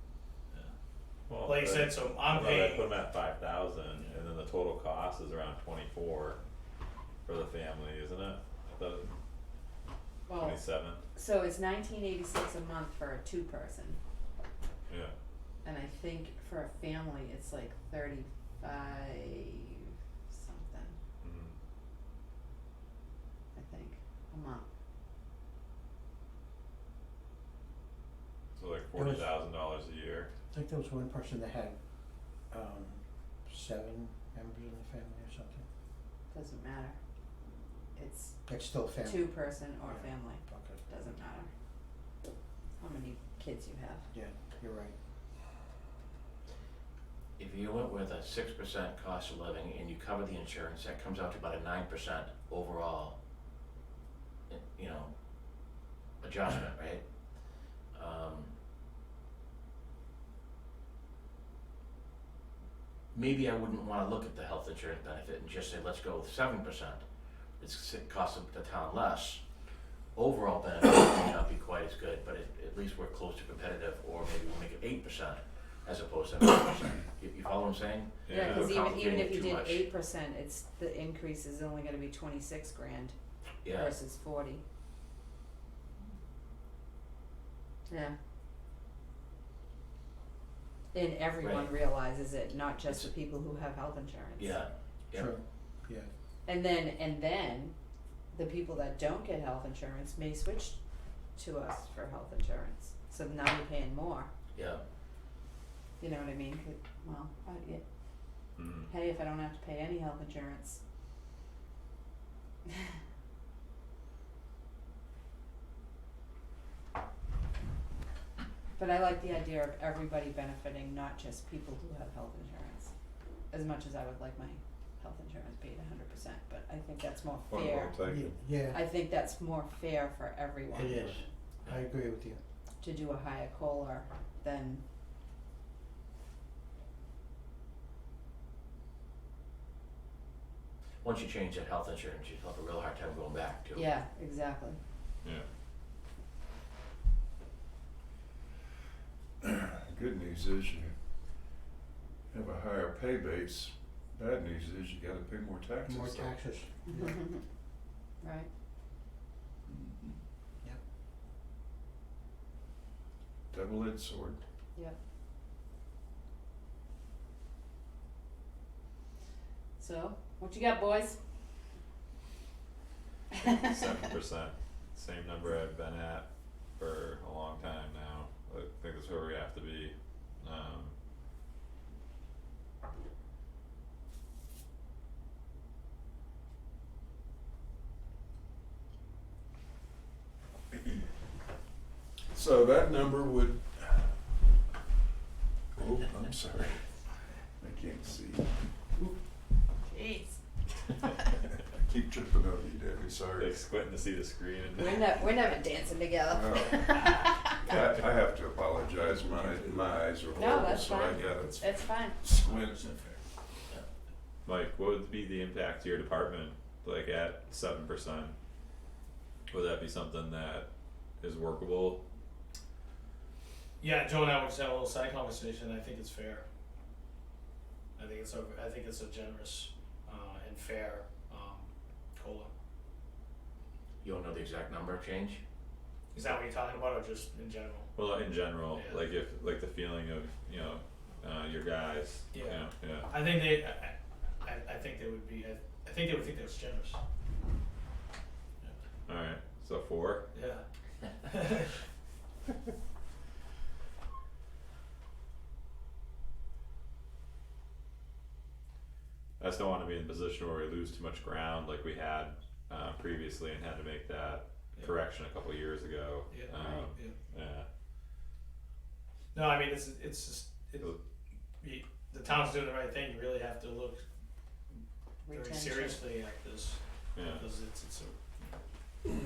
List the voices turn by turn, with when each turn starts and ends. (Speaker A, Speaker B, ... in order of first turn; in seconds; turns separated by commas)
Speaker A: 1.3-6.4, Speaker B: 1.4-2.9, Speaker B: 3.9-4.2, Speaker A: 7.2-9.1, Speaker C: 10.3-10.6, Speaker A: 10.4-11.0, Speaker C: 11.1-14.0, Speaker C: 15.6-21.0, Speaker A: 21.2-21.5, Speaker C: 23.5-24.6, Speaker A: 28.6-30.3, Speaker D: 28.9-29.2, Speaker D: 30.5-31.8, Speaker D: 32.5-35.6, Speaker C: 36.3-37.0, Speaker C: 37.9-38.4, Speaker D: 38.5-39.2, Speaker C: 39.0-41.5, Speaker D: 39.9-40.9, Speaker C: 42.8-44.1, Speaker D: 44.1-44.9, Speaker E: 47.4-53.1, Speaker E: 54.5-58.5, Speaker E: 63.1-69.4, Speaker E: 70.1-79.9, Speaker A: 78.2-78.7, Speaker C: 78.3-83.1, Speaker E: 83.6-83.9, Speaker C: 83.7-84.6, Speaker C: 87.9-88.2, Speaker C: 90.9-94.6, Speaker E: 91.4-91.8, Speaker E: 94.3-95.3, Speaker D: 95.2-96.1, Speaker C: 96.5-97.7, Speaker C: 98.3-100.8, Speaker C: 101.3-104.3, Speaker E: 104.5-104.8, Speaker C: 106.0-107.8, Speaker A: 108.6-108.9, Speaker C: 108.8-110.8, Speaker C: 118.8-122.9, Speaker C: 123.5-128.0, Speaker F: 127.5-128.4, Speaker D: 128.0-128.8, Speaker C: 128.7-131.1, Speaker D: 130.7-132.4, Speaker C: 132.8-134.8, Speaker E: 141.0-143.9, Speaker C: 143.7-144.8, Speaker F: 149.4-150.9, Speaker F: 152.3-156.4, Speaker D: 155.8-157.2, Speaker C: 156.9-157.4, Speaker C: 158.2-158.5, Speaker F: 159.7-160.2, Speaker F: 163.5-164.4, Speaker C: 169.8-171.2, Speaker A: 173.4-180.9, Speaker F: 190.7-191.0, Speaker F: 192.3-194.2, Speaker F: 195.7-196.9, Speaker F: 197.6-198.6, Speaker C: 199.8-200.4, Speaker F: 201.7-203.6, Speaker A: 203.4-205.2, Speaker C: 204.7-207.6, Speaker F: 206.3-213.0, Speaker B: 209.0-210.0, Speaker C: 210.3-212.2, Speaker B: 212.2-213.2, Speaker A: 214.4-218.3, Speaker A: 219.5-220.7, Speaker A: 221.2-222.0, Speaker B: 223.8-226.4, Speaker B: 228.0-232.5, Speaker E: 234.0-235.4, Speaker B: 236.1-237.9, Speaker A: 237.9-243.1, Speaker B: 238.7-239.0, Speaker B: 242.3-247.0, Speaker A: 249.1-250.2, Speaker B: 250.3-250.7, Speaker B: 251.2-251.7, Speaker A: 259.4-267.7, Speaker B: 266.3-267.1, Speaker C: 266.5-266.9, Speaker B: 269.3-270.9, Speaker B: 271.6-274.0, Speaker C: 275.2-276.0, Speaker B: 275.3-278.6, Speaker A: 277.1-277.4